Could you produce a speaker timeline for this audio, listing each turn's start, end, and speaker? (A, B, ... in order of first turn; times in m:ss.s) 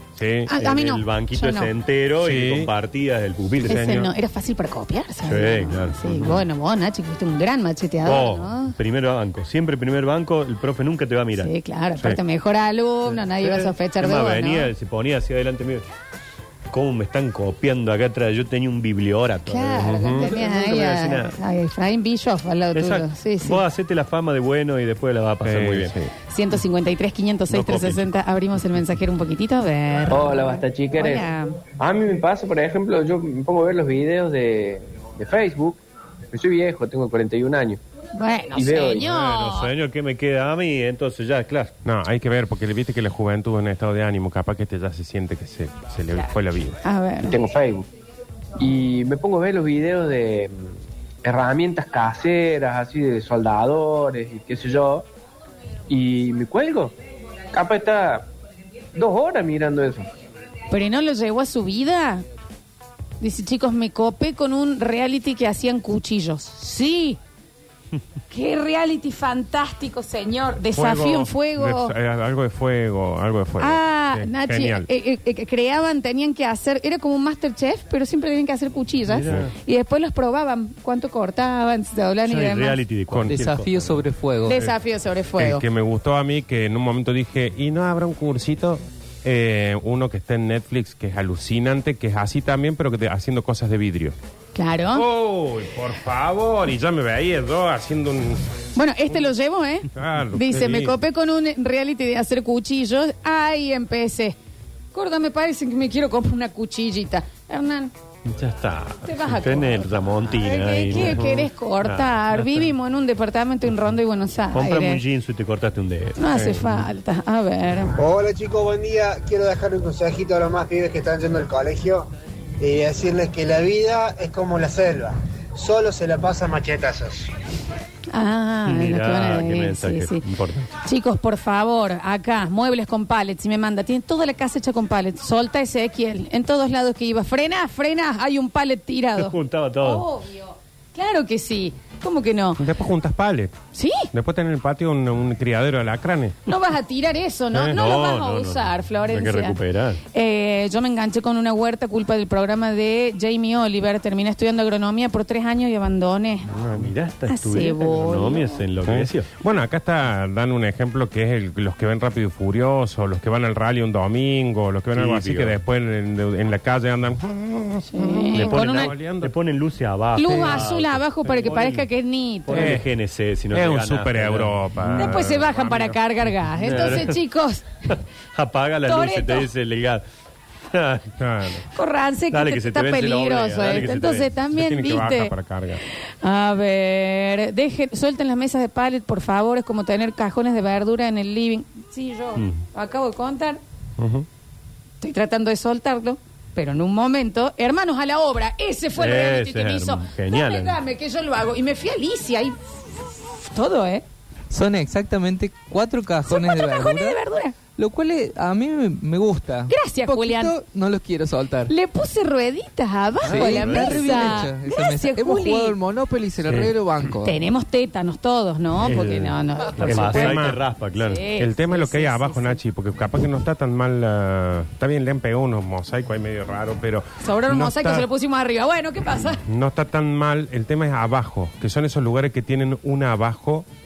0:00.2-0:00.5 A
0:00.5-0:01.7 B
0:00.5-0:03.9 C
0:02.2-0:02.7 A
0:03.6-0:04.1 A
0:03.6-0:08.7 B
0:05.2-0:06.4 C
0:08.0-0:11.5 C
0:11.4-0:14.7 B
0:13.1-0:15.8 C
0:16.7-0:21.3 C
0:19.4-0:23.6 B
0:19.9-0:20.3 A
0:22.7-0:25.9 C
0:25.4-0:26.1 A
0:26.3-0:31.6 B
0:27.5-0:28.1 C
0:30.1-0:31.2 D
0:31.8-0:35.8 D
0:36.3-0:37.8 D
0:38.2-0:39.7 B
0:38.5-0:39.0 D
0:39.0-0:41.7 C
0:41.8-0:46.8 A
0:46.8-0:47.4 B
0:47.3-0:47.8 D
0:48.6-0:50.6 D
0:51.2-0:55.0 D
0:55.9-0:56.9 D
0:57.5-0:58.3 D
0:58.9-1:00.1 D
1:00.7-1:02.2 B
1:03.2-1:07.2 B
1:08.3-1:11.9 B
1:10.7-1:14.9 A
1:13.6-1:22.8 B
1:19.1-1:19.5 C
1:22.3-1:24.1 C
1:23.1-1:23.4 A
1:23.2-1:24.6 E
1:24.4-1:25.6 B
1:25.4-1:34.1 A
1:34.5-1:35.0 B
1:34.9-1:38.4 A
1:38.7-1:44.4 B
1:39.9-1:41.0 A
1:44.9-1:47.9 B
1:48.2-1:52.6 C
1:49.0-1:55.0 B
1:54.5-1:56.8 C
1:56.2-1:57.9 B
1:56.3-1:56.6 A
1:58.0-2:02.1 F
2:02.6-2:07.3 F
2:08.1-2:10.2 B
2:08.7-2:10.7 C
2:10.8-2:22.6 B
2:19.2-2:20.0 C
2:22.6-2:23.5 A
2:23.7-2:24.1 B
2:24.1-2:26.4 A
2:26.4-2:29.6 B
2:27.5-2:30.0 C
2:30.1-2:36.5 B
2:36.5-2:39.3 C
2:37.3-2:38.6 B
2:38.8-2:49.3 A
2:44.9-2:45.6 C
2:47.9-2:48.9 B
2:48.3-2:51.9 C
2:50.2-2:52.8 B
2:52.4-2:55.3 C
2:52.5-2:52.9 A
2:53.5-2:56.9 A
2:55.0-2:57.7 B
2:56.6-2:57.2 C
2:57.9-3:00.0 C
2:58.9-2:59.5 B
3:00.7-3:01.1 C
3:01.2-3:01.6 A
3:01.7-3:05.3 B
3:02.3-3:04.3 C
3:04.5-3:05.8 A
3:06.0-3:13.6 B
3:14.0-3:14.2 A
3:15.0-3:24.0 B
3:19.0-3:20.8 C
3:24.5-3:31.7 E
3:26.2-3:27.5 B
3:29.7-3:30.6 B
3:31.7-3:35.8 B
3:33.2-3:34.5 C
3:33.2-3:37.4 E
3:36.4-3:36.7 C
3:37.2-3:40.4 B
3:38.8-3:39.3 C
3:39.8-3:40.6 A
3:39.8-3:41.2 C
3:41.0-3:42.6 B
3:41.4-3:48.1 A
3:47.2-3:49.4 B
3:49.4-3:53.7 A